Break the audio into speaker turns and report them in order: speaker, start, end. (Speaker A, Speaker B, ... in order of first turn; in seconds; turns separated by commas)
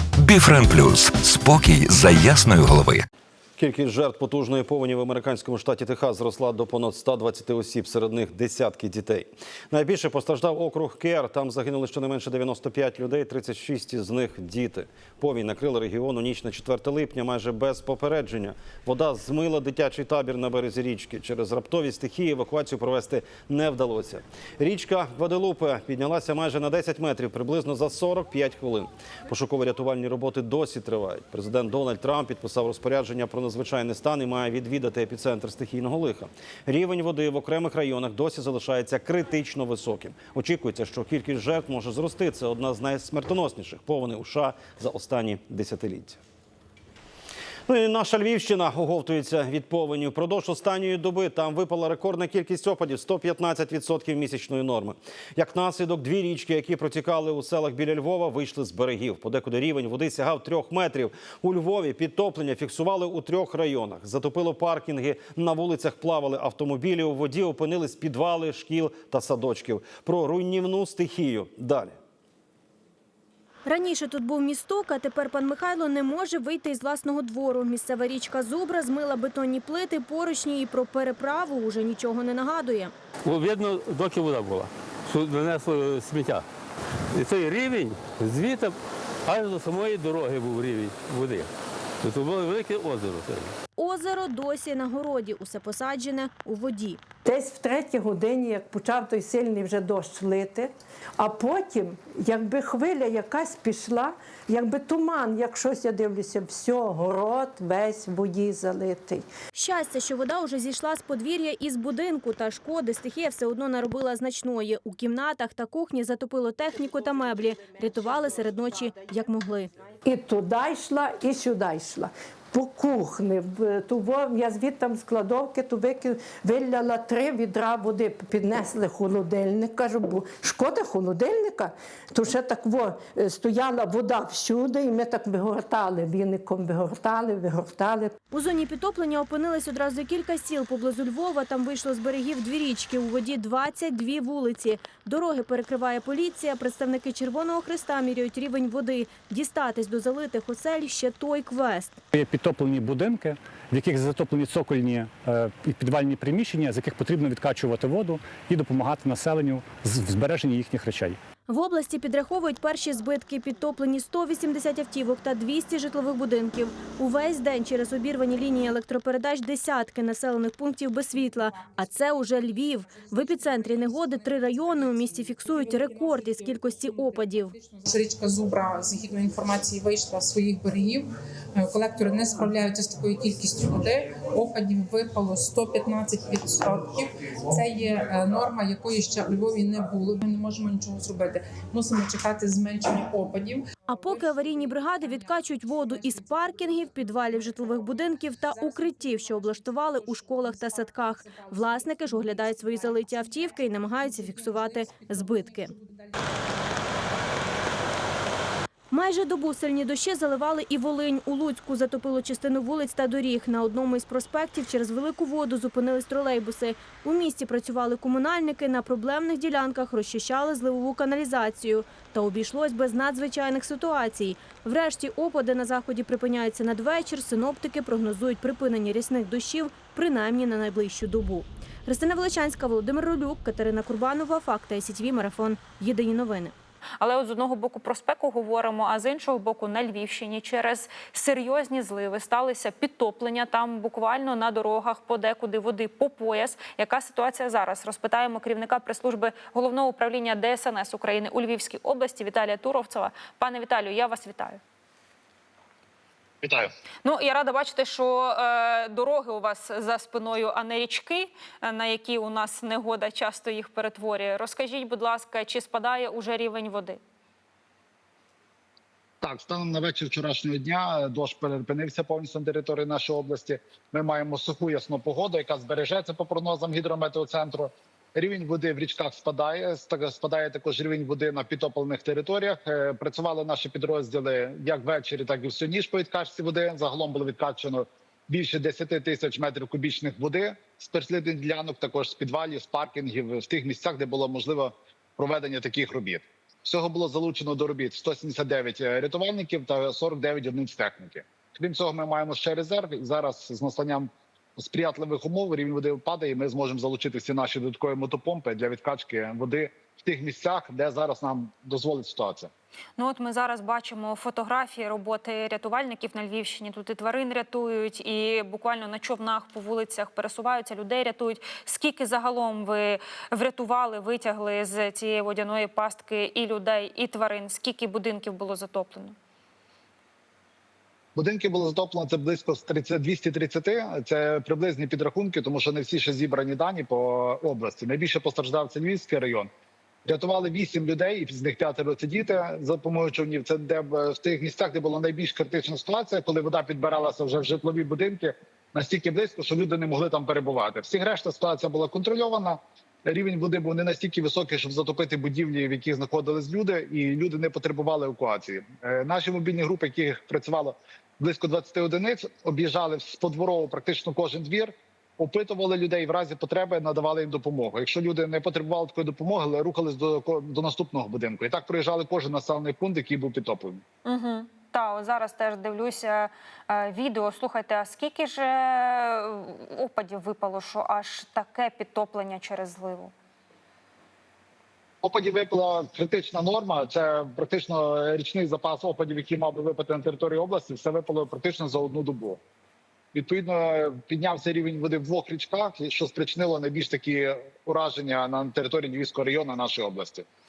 Speaker A: 0.2-3.0, Speaker B: 3.6-46.2, Speaker B: 47.7-72.0, Speaker C: 73.6-82.9, Speaker D: 83.2-86.4, Speaker D: 87.2-88.7, Speaker D: 89.3-91.5, Speaker D: 92.0-93.4, Speaker C: 93.8-97.0, Speaker E: 97.2-109.2, Speaker C: 109.5-119.7, Speaker E: 120.0-138.1, Speaker C: 138.3-152.0, Speaker F: 152.1-161.2, Speaker C: 161.5-177.5, Speaker G: 171.2-207.5, Speaker C: 193.9-205.7, Speaker C: 208.9-236.5, Speaker H: 237.0-254.6, Speaker I: 256.4-256.7, Speaker H: 257.0-267.0, Speaker I: 269.2-312.5, Speaker H: 313.0-329.1, Speaker I: 331.1-339.5, Speaker I: 340.1-373.8, Speaker H: 374.1-383.1, Speaker I: 385.0-392.4, Speaker I: 393.1-400.2